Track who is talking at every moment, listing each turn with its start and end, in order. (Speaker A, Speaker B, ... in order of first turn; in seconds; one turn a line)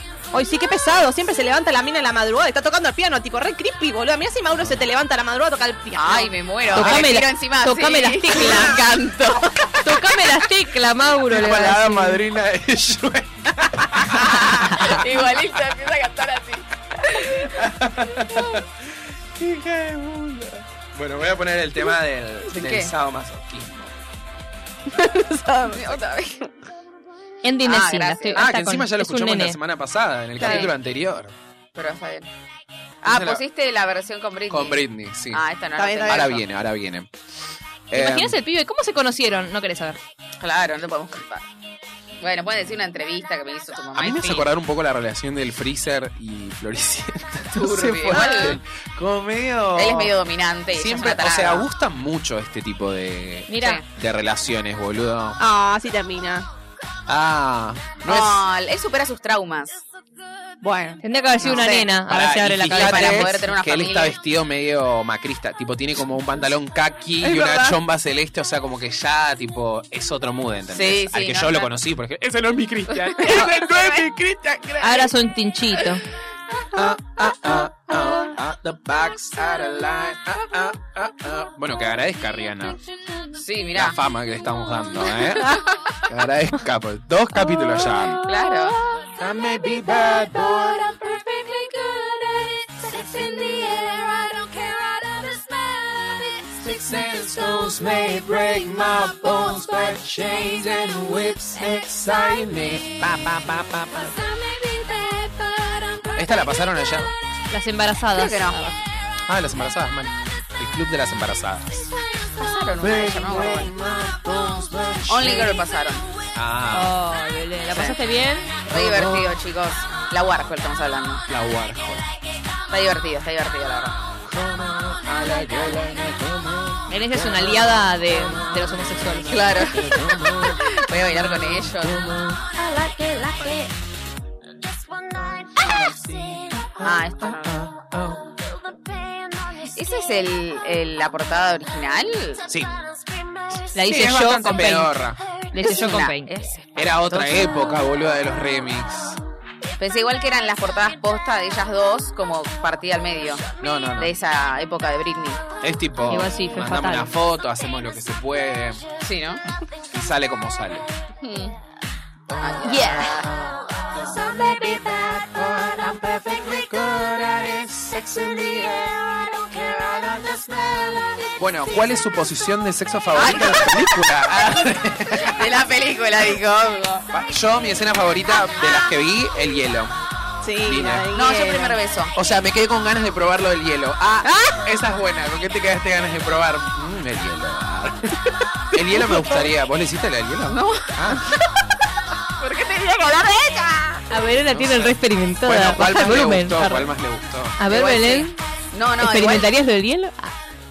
Speaker A: 0.3-6.4
Speaker B: 5.9-9.8
Speaker C: 6.7-7.1
Speaker D: 6.7-8.9
Speaker C: 9.6-9.9
Speaker D: 9.8-12.2
Speaker C: 11.2-15.3
Speaker B: 14.1-17.4
Speaker C: 17.2-23.9
Speaker B: 22.5-22.9
Speaker A: 24.9-26.0
Speaker B: 25.7-26.5
Speaker D: 27.4-29.6
Speaker B: 27.6-28.5
Speaker C: 28.3-31.3
Speaker B: 30.4-30.7
Speaker B: 31.7-32.3
Speaker B: 33.0-36.5
Speaker C: 33.0-33.4
Speaker C: 34.5-35.4
Speaker A: 35.8-36.4
Speaker C: 36.0-37.1
Speaker C: 37.9-38.4
Speaker D: 37.9-40.0
Speaker B: 40.4-41.5
Speaker B: 42.2-44.5
Speaker C: 43.9-50.2
Speaker B: 47.5-48.6
Speaker B: 49.8-51.7
Speaker C: 50.7-55.4
Speaker D: 53.5-53.8
Speaker A: 55.4-56.5
Speaker C: 57.1-58.5
Speaker B: 58.1-59.8
Speaker A: 60.6-61.9
Speaker D: 61.0-63.4
Speaker B: 61.4-61.8
Speaker C: 62.0-75.1
Speaker B: 62.6-64.2
Speaker A: 67.2-67.8
Speaker B: 70.7-71.7
Speaker D: 74.8-76.0
Speaker C: 76.7-82.8
Speaker E: 82.2-83.4
Speaker B: 83.3-84.0
Speaker C: 83.7-88.2
Speaker B: 85.4-85.8
Speaker E: 87.5-103.1
Speaker B: 88.3-88.8
Speaker C: 89.2-90.8
Speaker C: 96.6-104.1
Speaker E: 103.9-107.1
Speaker C: 106.1-107.1
Speaker D: 107.5-108.8
Speaker B: 108.1-108.6
Speaker C: 109.3-111.9
Speaker B: 112.4-113.7
Speaker C: 112.8-115.6
Speaker B: 115.1-116.1
Speaker C: 116.3-116.9
Speaker D: 116.7-118.6
Speaker B: 117.7-118.0
Speaker B: 118.6-121.2
Speaker C: 118.7-119.4
Speaker C: 121.3-122.0
Speaker B: 122.7-124.0
Speaker C: 124.3-132.4
Speaker D: 126.9-129.6
Speaker B: 129.3-132.1
Speaker E: 132.5-133.7
Speaker E: 134.7-136.7
Speaker C: 135.6-138.2
Speaker B: 136.8-137.6
Speaker E: 138.5-139.8
Speaker B: 139.7-142.4
Speaker C: 142.5-142.8
Speaker E: 142.8-144.3
Speaker D: 143.7-144.9
Speaker C: 143.9-145.2
Speaker D: 145.5-146.3
Speaker B: 145.6-147.5
Speaker C: 146.7-149.2
Speaker B: 149.8-153.5
Speaker C: 153.6-154.1
Speaker B: 154.0-155.4
Speaker C: 155.6-158.8
Speaker D: 156.1-157.1
Speaker B: 159.0-159.4
Speaker C: 159.9-160.9
Speaker B: 161.2-161.6
Speaker C: 162.3-175.5
Speaker B: 162.4-163.3
Speaker D: 162.6-163.3
Speaker E: 163.7-164.8
Speaker B: 173.1-174.3
Speaker B: 175.1-177.1
Speaker C: 177.1-179.9
Speaker A: 180.4-181.8
Speaker C: 180.6-181.1
Speaker B: 181.1-182.1
Speaker C: 182.1-191.3
Speaker A: 184.2-184.7
Speaker B: 190.5-191.3
Speaker B: 192.4-194.1
Speaker D: 194.1-196.9
Speaker C: 194.4-197.6
Speaker D: 197.6-198.3
Speaker B: 197.7-199.5
Speaker D: 199.0-200.3